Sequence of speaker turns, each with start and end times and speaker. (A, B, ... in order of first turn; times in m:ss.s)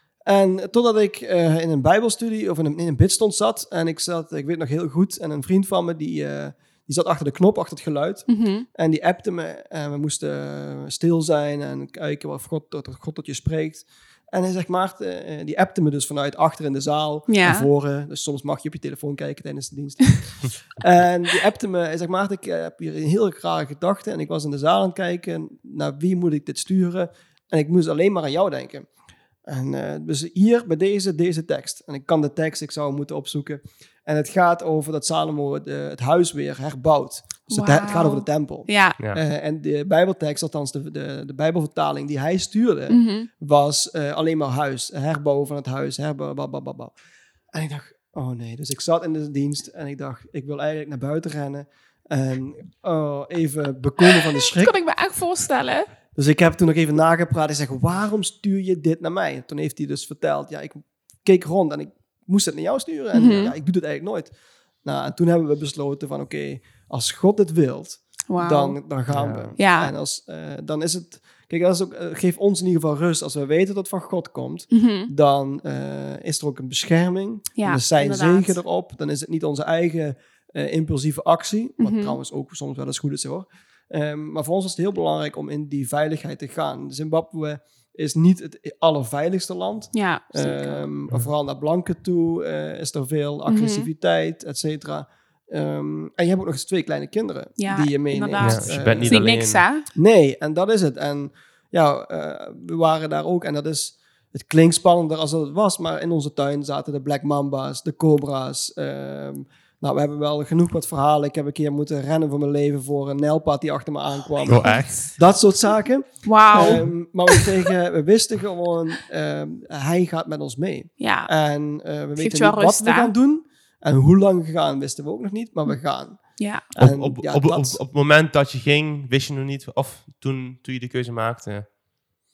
0:00.2-0:28.9 A
0:08.3-0:08.6 B
0:17.3-0:17.7 B
0:29.4-0:46.9 A
0:37.5-0:39.0 B
0:42.9-0:43.3 B
0:47.5-0:54.7 A
0:54.0-0:55.9 B
0:56.1-1:39.3 A
1:03.1-1:03.5 B
1:08.3-1:08.8 B
1:09.1-1:09.5 C
1:09.6-1:09.9 B
1:14.7-1:15.1 B
1:17.6-1:18.6 B
1:21.8-1:22.2 B
1:29.9-1:30.9 B
1:33.5-1:33.9 B
1:37.6-1:39.9 B
1:38.4-1:39.6 C
1:39.9-2:07.8 A
1:54.4-1:55.1 C
1:54.6-1:55.0 B
1:56.2-1:57.5 B
2:01.0-2:01.3 B
2:02.1-2:03.1 B
2:06.4-2:06.6 B
2:06.8-2:11.7 C